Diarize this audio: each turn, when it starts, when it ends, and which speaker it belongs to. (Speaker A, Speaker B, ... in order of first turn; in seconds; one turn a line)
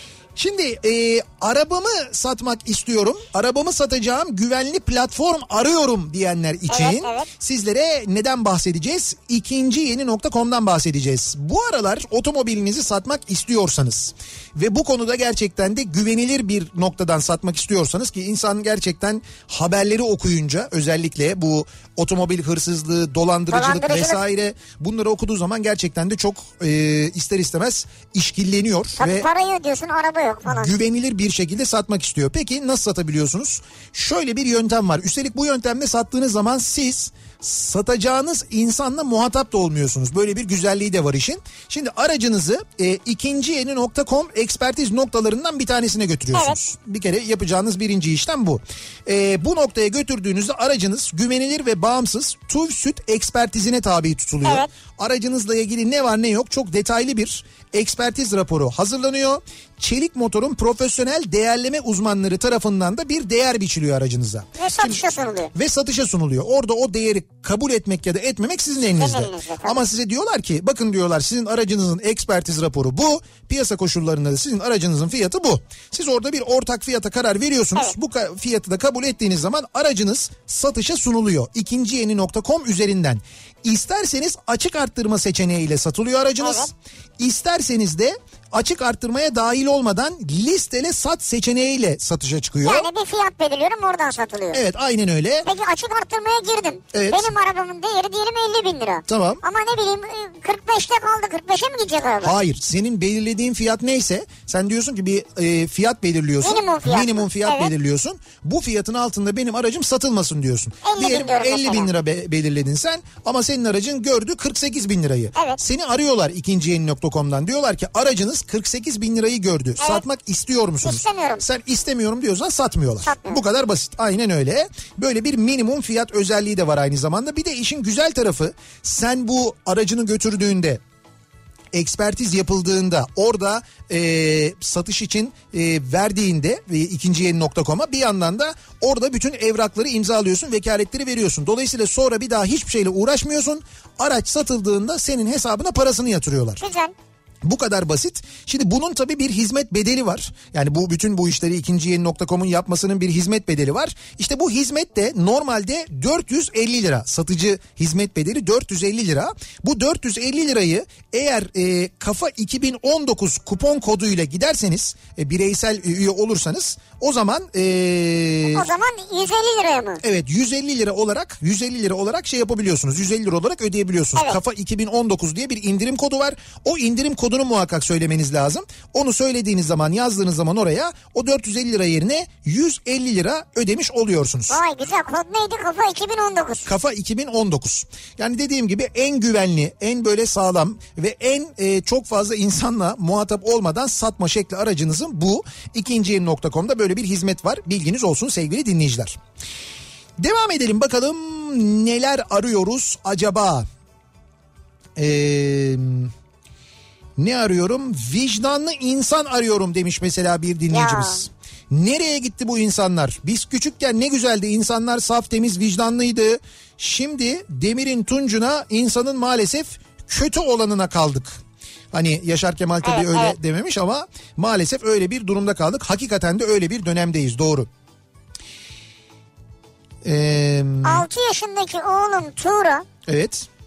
Speaker A: 0.3-29.3
Speaker B: 6.7-7.3
Speaker B: 23.5-24.2
Speaker B: 29.0-30.7
Speaker A: 30.4-65.0
Speaker B: 46.3-46.6
Speaker B: 54.4-54.7
Speaker B: 64.6-65.5
Speaker A: 65.5-92.9
Speaker B: 68.9-69.8
Speaker B: 86.4-86.7
Speaker B: 92.6-94.6
Speaker A: 94.5-95.5
Speaker B: 95.4-102.3
Speaker A: 96.9-97.3
Speaker A: 99.1-99.4
Speaker A: 102.2-130.8
Speaker B: 106.4-107.7
Speaker B: 110.8-111.9
Speaker B: 120.8-121.4
Speaker B: 123.0-123.4
Speaker A: 131.7-146.6
Speaker B: 146.6-146.9
Speaker A: 147.4-168.7
Speaker B: 168.5-170.0
Speaker A: 170.0-184.6
Speaker B: 184.5-186.7
Speaker A: 186.7-199.2
Speaker A: 200.2-203.6
Speaker A: 204.9-206.1
Speaker A: 207.2-221.3
Speaker B: 210.7-211.3
Speaker A: 221.9-227.7
Speaker B: 222.8-223.3
Speaker A: 230.0-231.1
Speaker B: 230.8-232.8
Speaker A: 233.1-233.5